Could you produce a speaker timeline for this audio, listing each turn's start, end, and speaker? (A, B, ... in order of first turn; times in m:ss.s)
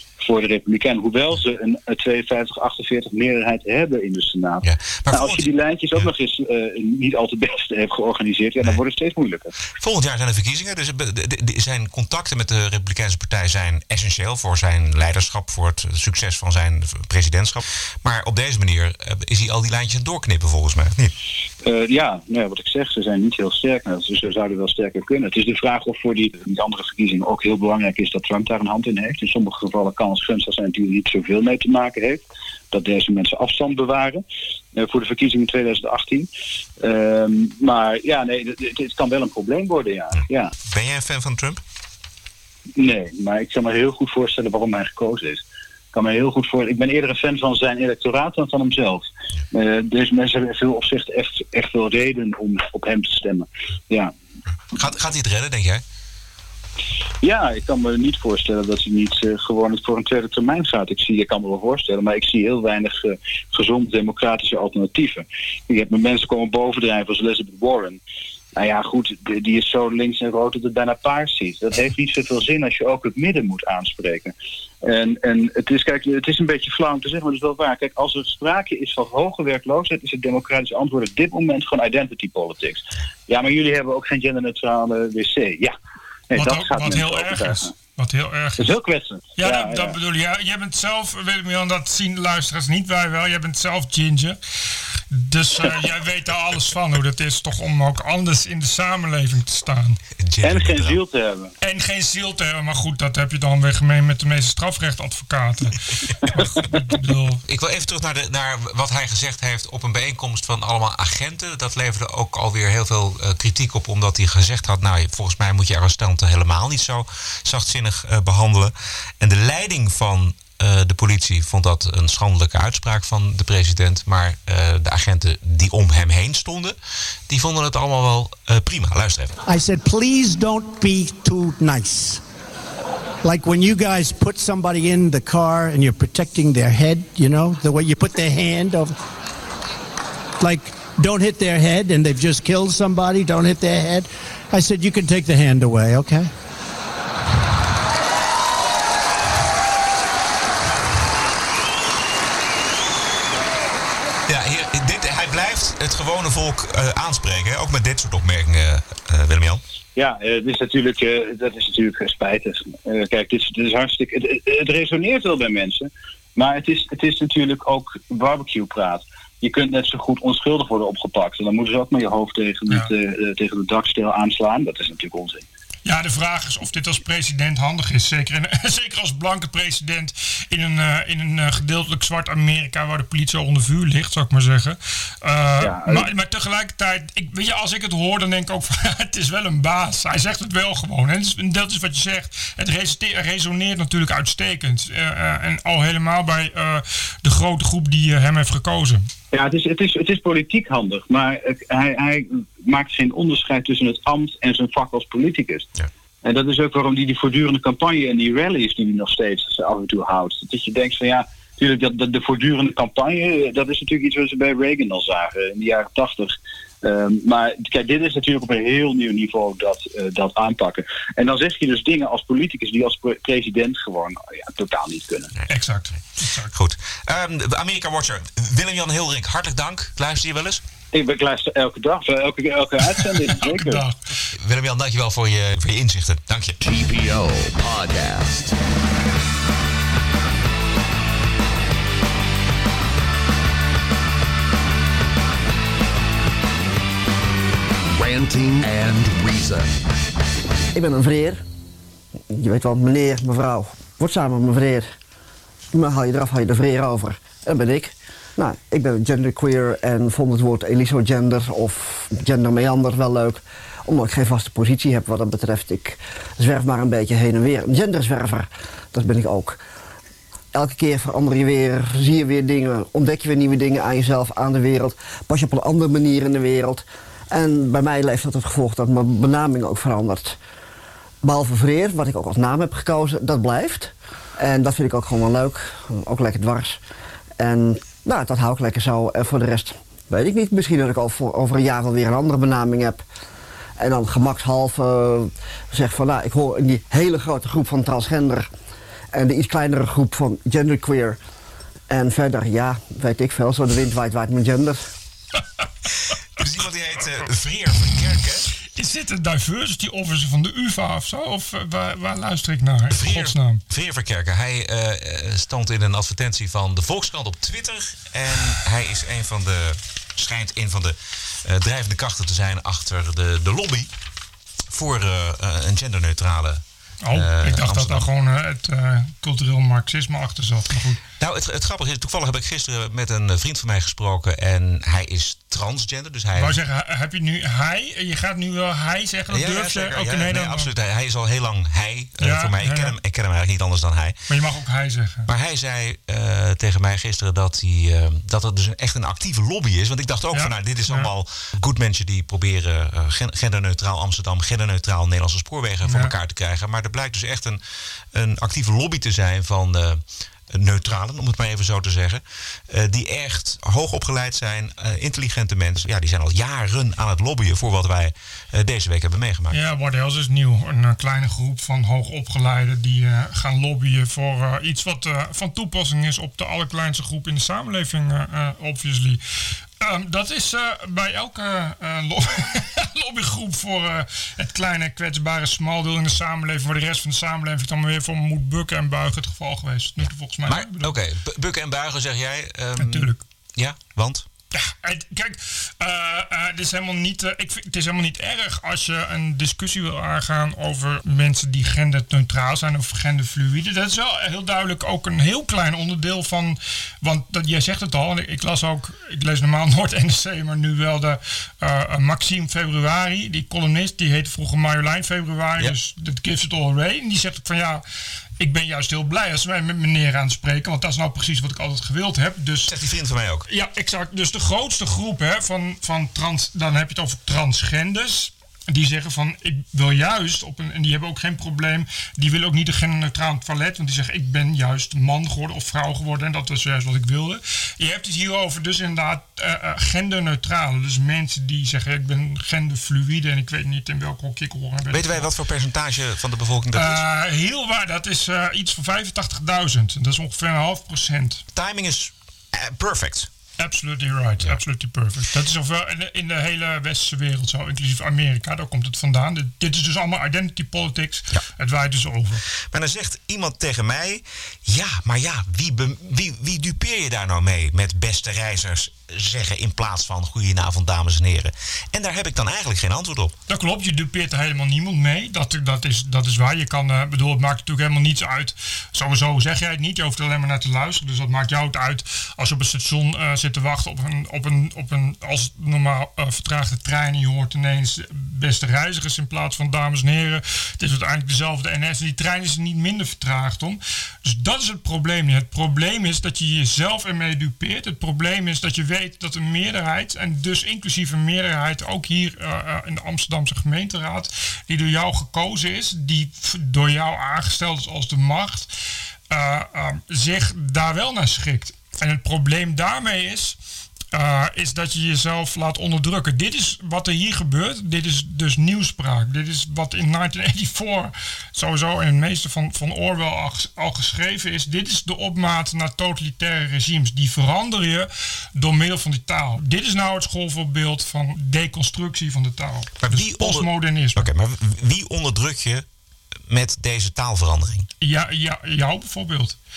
0:00.2-0:09.5 A
0:04.6-0:06.1 B
0:09.8-0:21.2 B
0:21.6-0:34.2 A
0:34.8-0:36.3 A
0:36.8-0:40.5 A
0:40.6-0:41.6 B
0:42.8-0:54.1 A
0:54.7-0:55.8 B
0:57.2-1:08.0 A
1:08.6-1:25.8 A
1:26.3-1:27.7 A
1:26.4-1:28.7 C
1:28.6-1:30.0 A
1:29.4-1:34.4 C
1:35.1-1:40.0 C
1:40.2-1:41.0 B
1:40.4-1:41.5 A
1:41.6-1:47.4 C
1:47.4-2:06.8 B
2:07.3-2:09.4 B
2:09.4-2:12.2 D
2:13.2-2:19.0 D
2:20.4-2:26.3 D
2:34.3-2:39.6 B
2:40.0-2:55.4 A
2:55.8-3:19.1 C
3:05.6-3:06.1 A
3:19.3-3:25.7 A
3:26.2-3:45.3 A
3:45.5-3:46.5 C
3:46.5-3:50.6 B
3:50.9-3:53.8 A
3:53.0-3:54.0 C
3:54.4-3:56.6 B
3:56.6-3:58.6 E
4:08.0-4:09.7 E
4:10.8-4:11.4 F
4:12.3-4:14.9 F
4:15.7-4:29.6 F
4:30.5-4:40.4 F
4:41.2-4:46.8 F
4:47.4-4:53.0 F
4:53.8-4:58.5 F
4:59.1-5:01.2 F
5:01.9-5:04.8 F
5:06.4-5:08.5 B
5:08.8-5:13.6 C
5:12.9-5:23.9 B
5:24.7-5:26.6 B
5:27.0-5:31.0 C
5:27.1-5:28.1 B
5:31.2-5:36.6 B
5:36.4-5:40.7 C
5:39.3-5:44.2 B
5:42.2-5:43.0 C
5:44.3-5:45.3 C
5:45.3-5:57.6 B
5:50.3-5:51.1 C
5:55.8-5:56.1 C
5:58.1-6:09.6 B
6:09.5-6:19.2 C
6:19.8-6:30.9 C
6:30.0-6:34.3 B
6:32.8-6:33.2 C
6:34.5-6:57.8 C
6:58.4-7:02.7 C
7:02.7-7:03.5 B
7:03.5-7:25.3 C
7:24.9-7:27.0 B
7:26.8-7:31.4 C
7:31.5-7:33.3 B
7:33.6-7:42.4 C
7:42.7-7:53.4 B
7:53.5-8:28.7 C
8:29.3-8:33.6 C
8:34.1-8:54.3 C
8:53.0-8:55.8 B
8:56.5-8:57.9 B
8:58.0-8:59.6 C